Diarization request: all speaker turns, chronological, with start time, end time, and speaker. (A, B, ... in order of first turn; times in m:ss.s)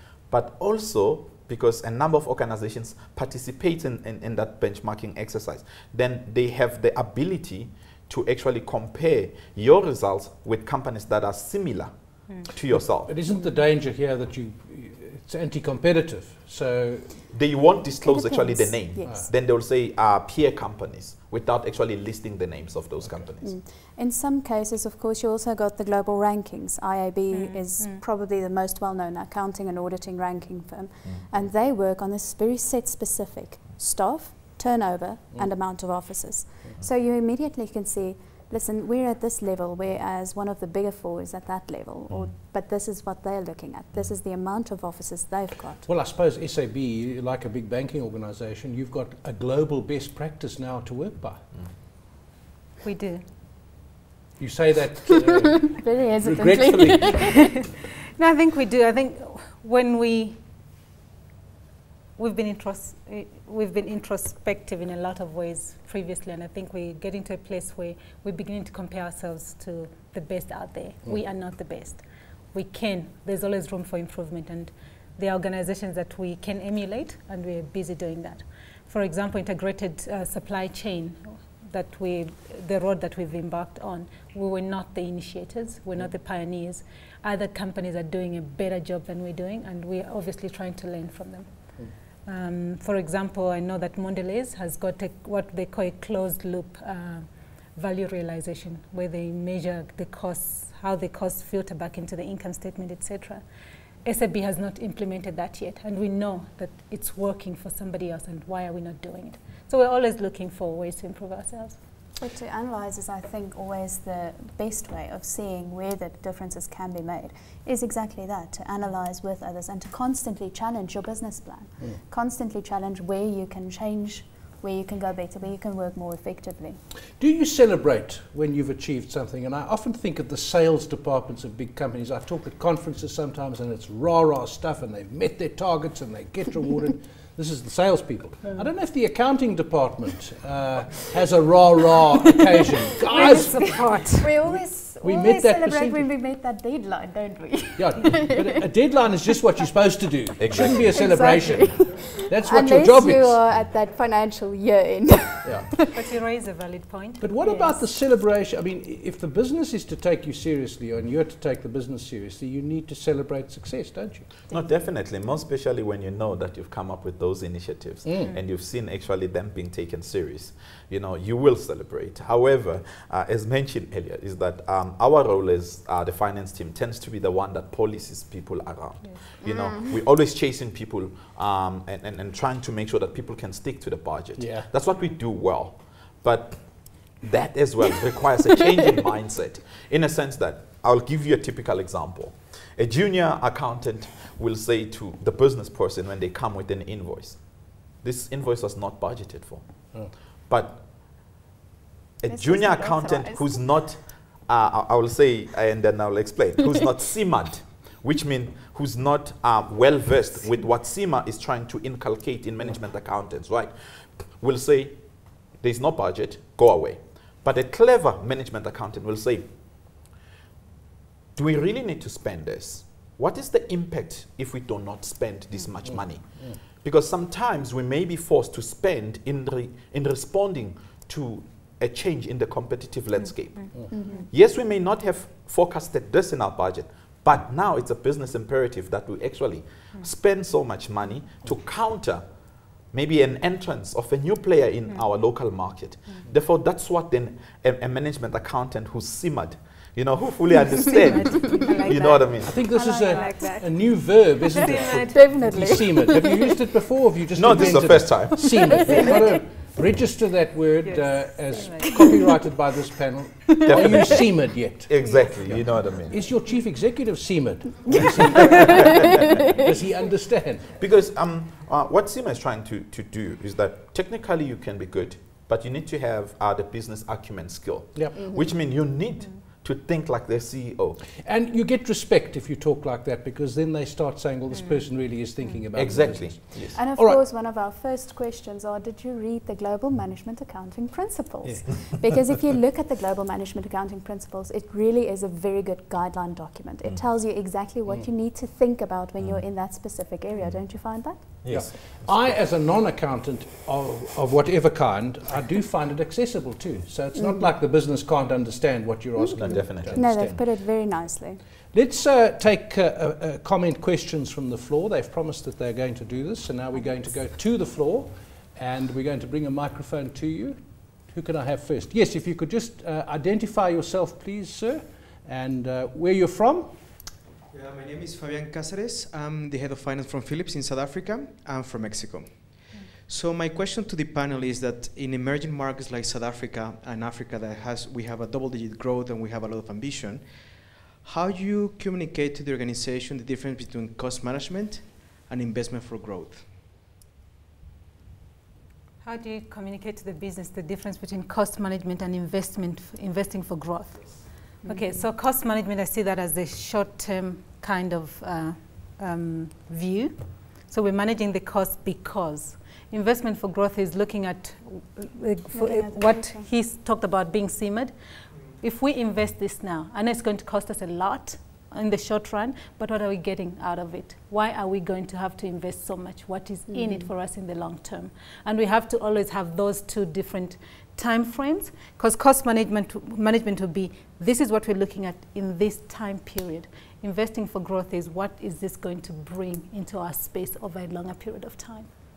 0:00.3-0:13.1 A
0:12.7-0:17.2 B
0:17.3-0:23.5 A
0:18.0-0:19.3 C
0:23.4-0:45.8 C
0:27.3-0:28.0 D
0:45.8-0:51.4 B
0:52.8-0:53.2 D
0:54.4-0:57.6 B
0:55.8-0:57.3 C
0:58.2-1:00.4 D
1:02.2-1:31.7 D
1:32.2-1:43.4 D
1:44.0-1:51.8 D
1:52.2-2:06.8 C
2:07.2-2:23.8 B
2:23.1-2:24.3 D
2:23.1-2:28.4 C
2:24.5-2:26.1 B
2:27.8-2:33.4 B
2:30.4-2:30.9 A
2:30.6-2:35.8 C
2:35.4-2:35.7 B
2:35.9-2:37.8 D
2:37.2-2:44.3 B
2:44.5-3:20.9 A
2:48.0-2:48.3 B
2:59.4-2:59.9 C
3:04.4-3:04.7 B
3:22.2-3:39.5 A
3:22.3-3:23.6 C
3:41.3-4:02.3 A
3:45.8-3:46.6 B
3:53.9-3:54.3 C
4:02.9-4:12.6 A
4:10.8-4:15.3 D
4:12.4-4:30.8 B
4:12.8-4:13.6 C
4:14.6-4:16.5 C
4:17.3-4:18.9 A
4:20.8-4:22.0 D
4:23.6-4:26.2 A
4:25.0-4:25.3 D
4:28.5-4:28.7 A
4:30.7-4:41.0 A
4:38.2-4:38.5 C
4:41.2-4:47.2 B
4:44.5-4:44.9 D
4:45.7-4:46.8 A
4:46.7-5:01.2 C
4:59.2-4:59.4 A
5:00.4-5:00.6 A
5:01.2-5:02.4 A
5:01.5-5:10.4 B
5:07.1-5:07.4 C
5:09.2-5:11.4 C
5:09.4-5:10.4 A
5:11.7-5:27.1 B
5:27.5-5:46.5 E
5:49.0-6:07.9 D
5:54.6-5:55.0 C
6:05.5-6:06.5 C
6:08.6-6:31.9 D
6:16.7-6:17.1 C